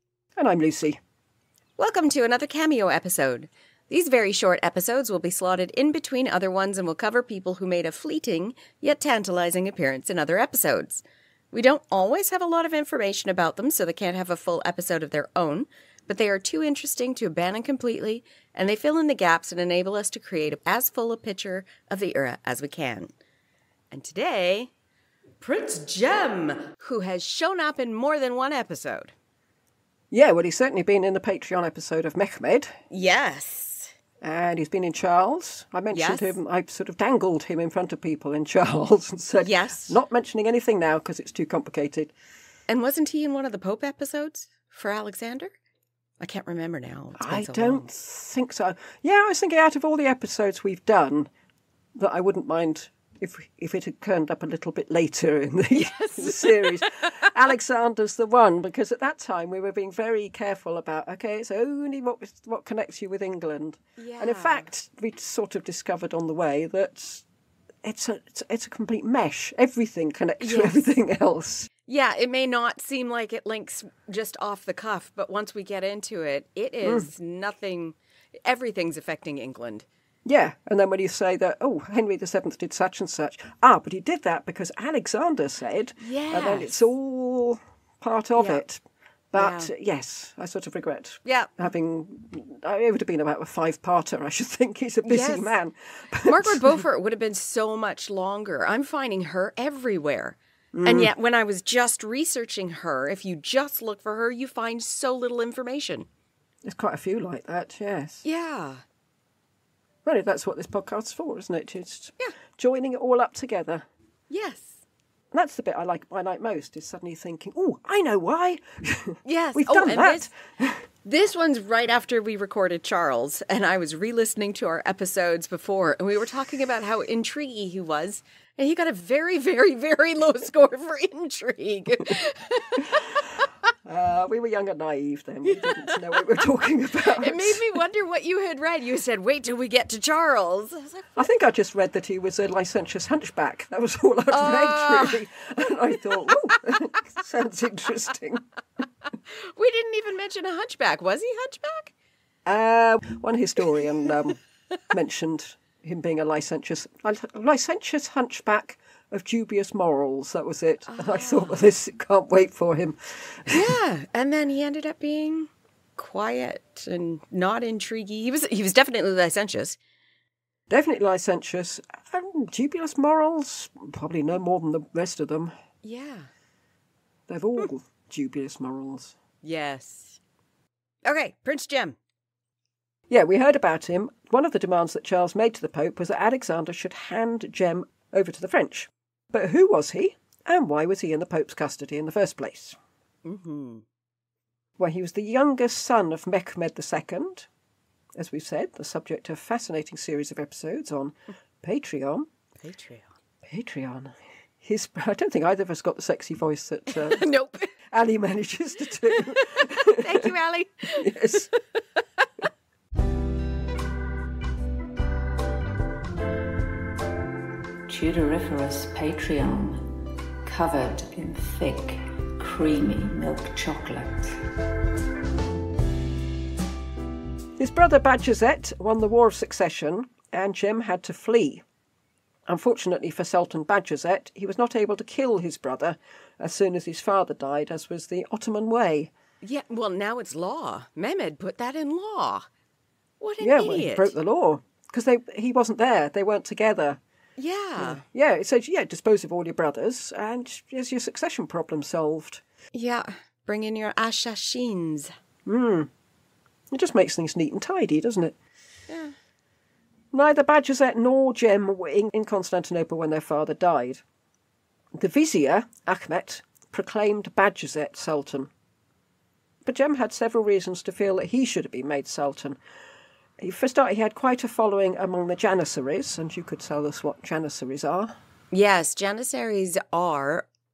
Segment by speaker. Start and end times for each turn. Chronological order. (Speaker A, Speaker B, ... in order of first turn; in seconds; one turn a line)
Speaker A: 0.3-1.0
Speaker B: 1.8-23.1
Speaker B: 23.9-24.7
Speaker B: 25.4-29.1
Speaker A: 30.1-32.8
Speaker B: 32.9-33.9
Speaker A: 34.2-42.1
Speaker B: 35.9-36.4
Speaker B: 39.4-40.0
Speaker B: 42.7-45.5
Speaker B: 46.2-47.9
Speaker A: 47.2-51.3
Speaker A: 52.0-67.2
Speaker B: 55.7-57.3
Speaker B: 64.0-64.7
Speaker A: 67.8-71.7
Speaker B: 70.4-70.9
Speaker B: 71.8-79.8
Speaker A: 76.8-77.1
Speaker A: 80.2-96.8
Speaker B: 86.0-86.9
Speaker B: 89.3-89.7
Speaker B: 91.2-91.5
Speaker B: 95.0-95.5
Speaker B: 96.2-106.1
Speaker A: 100.7-101.1
Speaker A: 106.6-108.2
Speaker B: 108.2-108.8
Speaker A: 110.0-113.8
Speaker B: 114.3-114.8
Speaker A: 115.3-120.8
Speaker B: 119.2-120.3
Speaker B: 121.0-133.5
Speaker A: 133.8-137.7
Speaker B: 135.4-136.2
Speaker B: 137.1-141.2
Speaker A: 141.2-148.4
Speaker B: 144.3-145.2
Speaker B: 149.3-151.9
Speaker A: 152.4-163.7
Speaker B: 160.9-161.6
Speaker B: 163.5-169.8
Speaker A: 170.7-175.5
Speaker B: 175.8-176.3
Speaker A: 177.3-179.1
Speaker B: 179.4-180.2
Speaker B: 181.0-181.9
Speaker A: 183.1-192.8
Speaker B: 193.2-193.8
Speaker A: 194.8-197.5
Speaker A: 198.2-202.3
Speaker B: 202.6-203.1
Speaker A: 203.4-207.3
Speaker B: 206.9-207.7
Speaker A: 207.9-210.3
Speaker B: 209.1-212.2
Speaker A: 211.0-211.5
Speaker C: 217.9-219.9
Speaker C: 220.4-224.3
Speaker A: 227.6-231.6
Speaker A: 232.5-239.1
Speaker B: 239.4-242.5
Speaker B: 243.2-244.1
Speaker A: 243.4-247.0
Speaker B: 247.4-248.0
Speaker A: 247.8-252.4
Speaker B: 252.7-255.1
Speaker A: 255.4-255.9
Speaker A: 256.7-258.3
Speaker B: 258.9-259.1
Speaker A: 260.1-264.0
Speaker A: 264.9-268.5
Speaker A: 269.6-272.6
Speaker A: 273.4-278.1
Speaker B: 278.5-280.5